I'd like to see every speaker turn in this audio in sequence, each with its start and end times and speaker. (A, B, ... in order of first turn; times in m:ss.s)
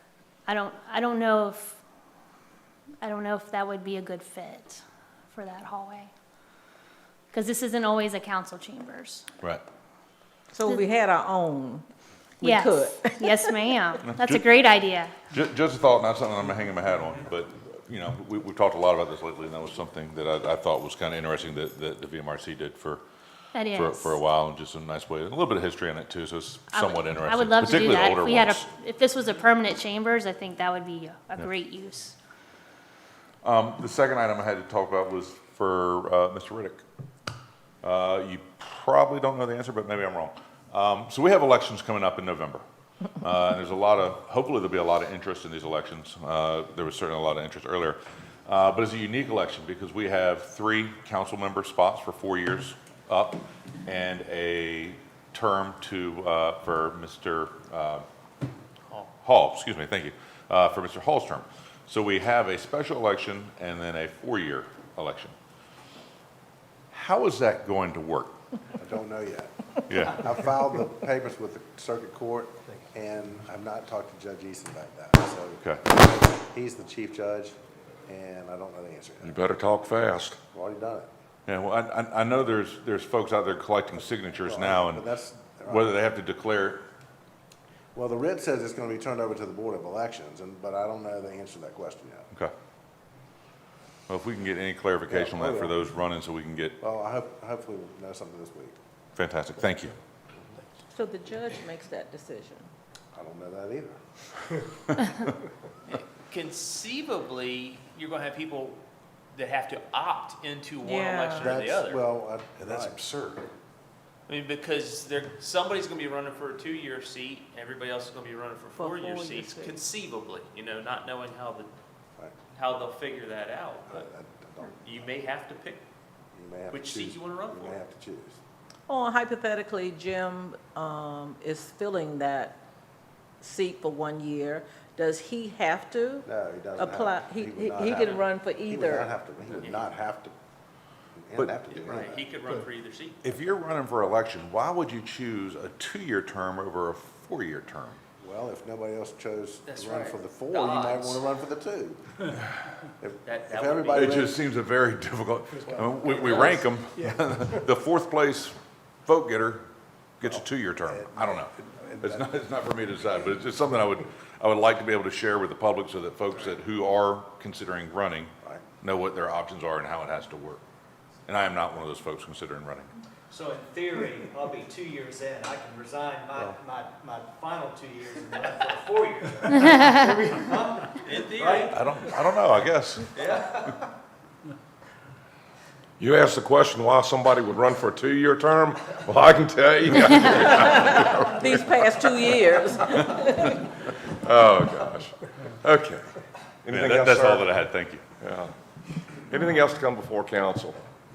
0:00.5-0:01.8 A
0:03.0-0:04.8 A
0:05.3-0:06.1 A
0:07.3-0:09.3 A
0:10.5-0:11.9 B
0:12.4-0:13.5 B
0:12.4-0:15.1 A
0:14.1-0:14.4 C
0:15.3-0:23.0 C
0:23.5-0:24.2 A
0:23.7-0:28.7 C
0:26.7-0:32.2 A
0:33.4-0:36.8 C
0:37.8-0:42.6 C
0:43.2-0:58.1 C
0:59.2-1:05.4 C
1:06.9-1:08.4 C
1:08.8-1:17.6 D
1:09.9-1:10.3 C
1:18.1-1:19.4 D
1:19.2-1:20.4 E
1:20.5-1:21.1 D
1:21.5-1:25.1 C
1:24.4-1:25.9 D
1:25.7-1:26.8 C
1:27.9-1:32.3 D
1:34.1-1:36.8 C
1:35.1-1:35.8 D
1:36.8-1:38.8 D
1:39.2-1:39.9 C
1:40.9-1:42.7 B
1:43.1-1:44.0 D
1:45.9-1:48.8 F
1:49.3-1:52.1 F
1:50.8-1:51.5 B
1:51.3-1:53.0 D
1:52.6-1:53.5 C
1:54.3-2:01.7 F
1:58.8-1:59.8 B
2:02.5-2:04.0 F
2:03.8-2:05.2 D
2:04.8-2:05.8 F
2:06.3-2:08.4 D
2:06.7-2:07.8 F
2:08.9-2:12.6 B
2:13.4-2:16.3 B
2:16.3-2:20.3 D
2:16.8-2:19.1 B
2:19.5-2:19.9 F
2:21.2-2:22.4 D
2:21.6-2:23.3 F
2:23.2-2:28.0 C
2:28.2-2:32.3 D
2:29.7-2:31.3 F
2:33.0-2:34.4 D
2:33.3-2:34.2 F
2:33.9-2:39.6 C
2:36.0-2:36.4 D
2:40.2-2:50.6 C
2:40.2-2:42.3 D
2:51.3-2:52.9 C
2:53.3-3:01.7 G
3:01.0-3:01.8 F
3:01.7-3:03.1 C
3:03.2-3:03.7 G
3:06.0-3:13.0 E
3:10.7-3:13.5 B
3:14.1-3:16.1 E
3:16.6-3:17.5 E
3:16.7-3:18.0 C
3:18.2-3:18.5 E
3:19.3-3:20.8 E